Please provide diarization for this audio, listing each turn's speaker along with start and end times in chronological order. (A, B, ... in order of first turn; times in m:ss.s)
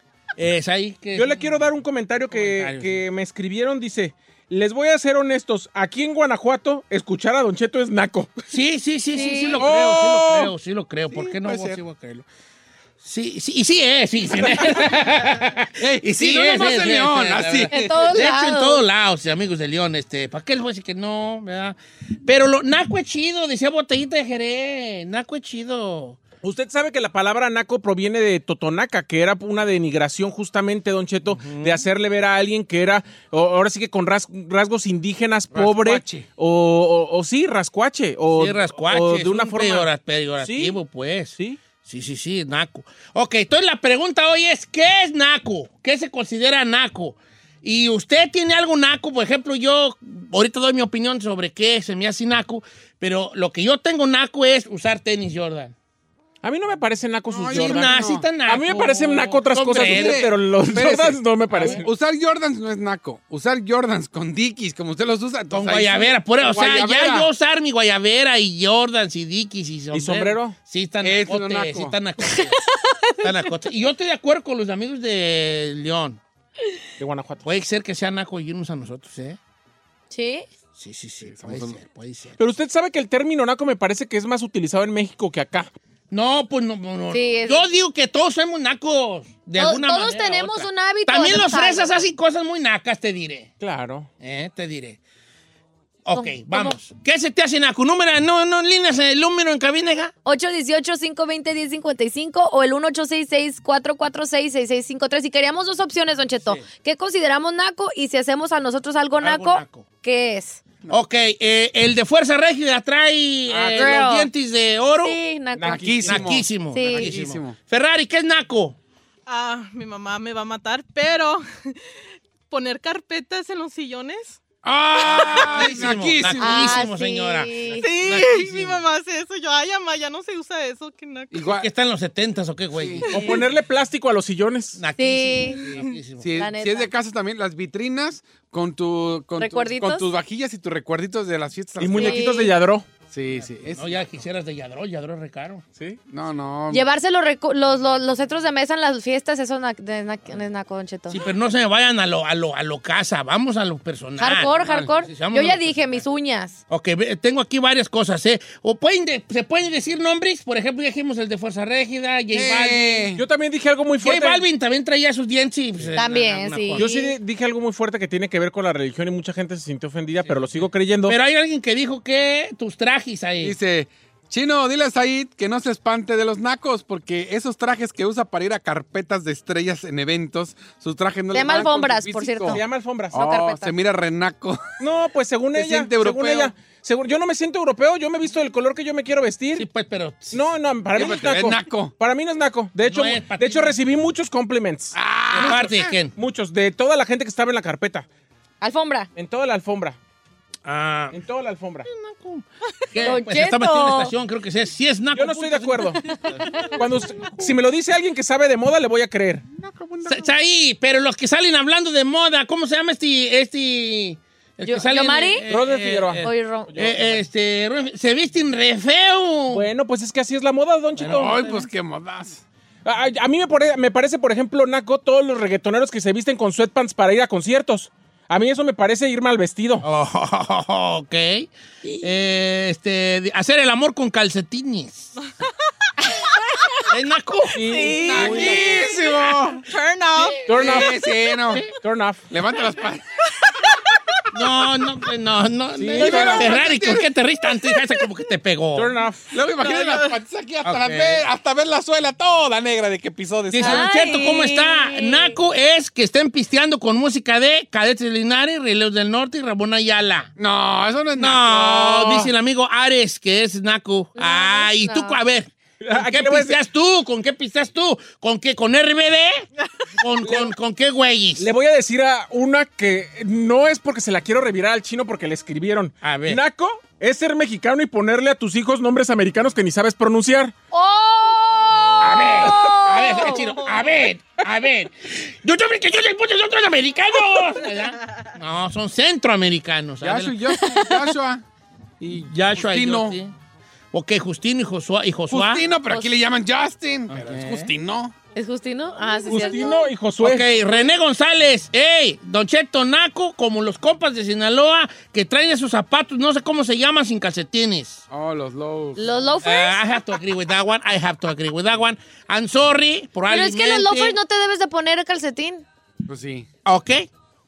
0:00.4-0:01.6 A
0:01.1-0:08.3 B
0:02.3-0:03.0 A
0:08.5-0:12.2 A
0:09.1-0:09.6 C
0:09.6-0:10.5 B
0:11.1-0:11.8 D
0:13.0-0:26.2 A
0:15.8-0:17.7 D
0:17.7-0:18.8 C
0:26.4-0:39.9 B
0:31.2-0:31.9 A
0:35.5-0:36.3 D
0:38.3-0:55.7 A
0:40.4-0:40.8 B
0:56.4-1:01.9 B
0:57.3-0:58.3 D
0:57.4-1:00.3 A
0:59.7-1:07.3 D
1:01.5-1:01.9 A
1:05.5-1:12.6 A
1:09.9-1:10.6 B
1:11.0-1:11.9 D
1:13.2-1:16.2 A
1:17.0-1:17.4 B
1:17.4-1:19.4 A
1:20.1-1:20.4 C
1:20.8-1:22.4 A
1:21.2-1:21.8 D
1:22.4-1:25.7 B
1:26.1-1:33.5 A
1:27.1-1:27.6 C
1:29.6-1:32.0 C
1:33.6-1:34.1 B
1:34.2-1:35.0 A
1:36.0-1:40.1 A
1:36.1-1:36.8 C
1:40.2-1:50.6 C
1:46.4-1:46.6 A
1:49.2-1:49.8 A
1:50.9-1:55.2 A
1:53.5-1:54.0 D
1:53.7-1:54.3 C
1:55.0-1:55.8 C
1:55.6-1:56.3 B
1:55.6-1:57.6 D
1:56.1-1:58.8 A
1:56.7-1:57.1 C
1:59.3-2:01.8 E
2:02.5-2:04.4 E
2:04.6-2:06.9 D
2:05.0-2:05.7 E
2:05.0-2:08.8 A
2:06.4-2:07.8 C
2:07.8-2:11.4 E
2:11.3-2:11.7 D
2:11.4-2:13.2 A
2:12.7-2:13.1 D
2:13.1-2:14.8 B
2:13.1-2:13.4 E
2:14.8-2:16.3 A
2:15.0-2:15.6 C
2:16.2-2:22.4 D
2:16.4-2:16.9 C
2:19.4-2:20.1 C
2:21.8-2:22.9 B
2:22.0-2:22.5 C
2:23.1-2:24.1 D
2:23.3-2:25.6 A
2:26.1-2:26.8 D
2:26.7-2:31.2 C
2:31.1-2:36.0 A
2:34.2-2:36.6 C
2:34.6-2:34.9 D
2:36.7-2:43.1 A
2:42.3-2:43.2 D
2:43.2-2:44.4 B
2:44.0-2:46.9 A
2:46.0-2:47.1 C
2:46.8-2:51.2 B
2:50.2-2:50.7 D
2:51.1-2:53.6 A
2:53.4-3:04.8 D
3:01.3-3:02.6 C
3:02.5-3:03.2 B
3:03.1-3:03.7 C
3:04.8-3:09.7 B
3:05.5-3:06.5 D
3:09.6-3:10.4 A
3:10.3-3:15.5 B
3:10.9-3:11.9 D
3:12.8-3:13.8 A
3:14.9-3:15.9 D
3:15.3-3:16.1 A
3:16.2-3:18.1 B
3:18.6-3:19.1 C
3:19.2-3:20.0 B
3:20.6-3:21.2 A
3:21.1-3:21.9 B
3:21.9-3:27.5 A
3:23.0-3:24.1 C
3:25.1-3:26.0 B
3:26.8-3:29.4 B
3:29.6-3:30.3 D
3:30.0-3:39.7 A
3:34.6-3:35.5 C
3:35.5-3:37.2 B
3:36.2-3:36.7 C
3:39.5-3:41.3 B
3:41.0-3:41.7 A
3:41.0-3:42.4 D
3:42.8-3:49.8 B
3:49.8-3:55.1 A
3:56.9-3:59.4 A
3:57.6-3:58.6 B
3:57.7-3:58.9 E
3:58.0-3:59.6 D
3:59.5-4:00.4 E
4:00.2-4:00.9 A
4:00.4-4:00.9 B
4:00.6-4:01.6 D
4:01.8-4:02.2 B
4:02.3-4:03.0 D
4:04.3-4:08.9 A
4:05.8-4:06.6 B
4:06.0-4:07.1 D
4:08.8-4:09.3 B
4:09.3-4:13.9 D
4:09.6-4:10.2 E
4:10.6-4:11.2 A
4:13.5-4:20.3 A
4:13.6-4:15.3 C
4:20.4-4:22.3 D
4:21.2-4:29.5 A
4:24.2-4:25.2 C
4:25.8-4:26.6 B
4:30.0-4:31.5 A
4:30.2-4:30.5 B
4:31.4-4:40.5 B
4:36.0-4:36.4 A
4:40.7-4:43.5 C
4:42.0-4:50.4 A
4:43.3-4:43.8 E
4:50.0-4:51.4 D
4:52.0-4:53.2 D
4:52.3-4:53.3 A
4:53.9-4:55.6 A
4:55.3-4:58.1 D
4:55.9-4:56.1 C
4:57.1-4:57.7 A
4:58.3-4:59.9 C
4:59.3-5:00.5 B
5:00.2-5:08.0 A
5:08.1-5:09.0 D
5:09.0-5:09.8 C
5:09.4-5:14.2 A
5:13.3-5:15.6 C
5:16.1-5:16.5 D
5:16.7-5:17.1 A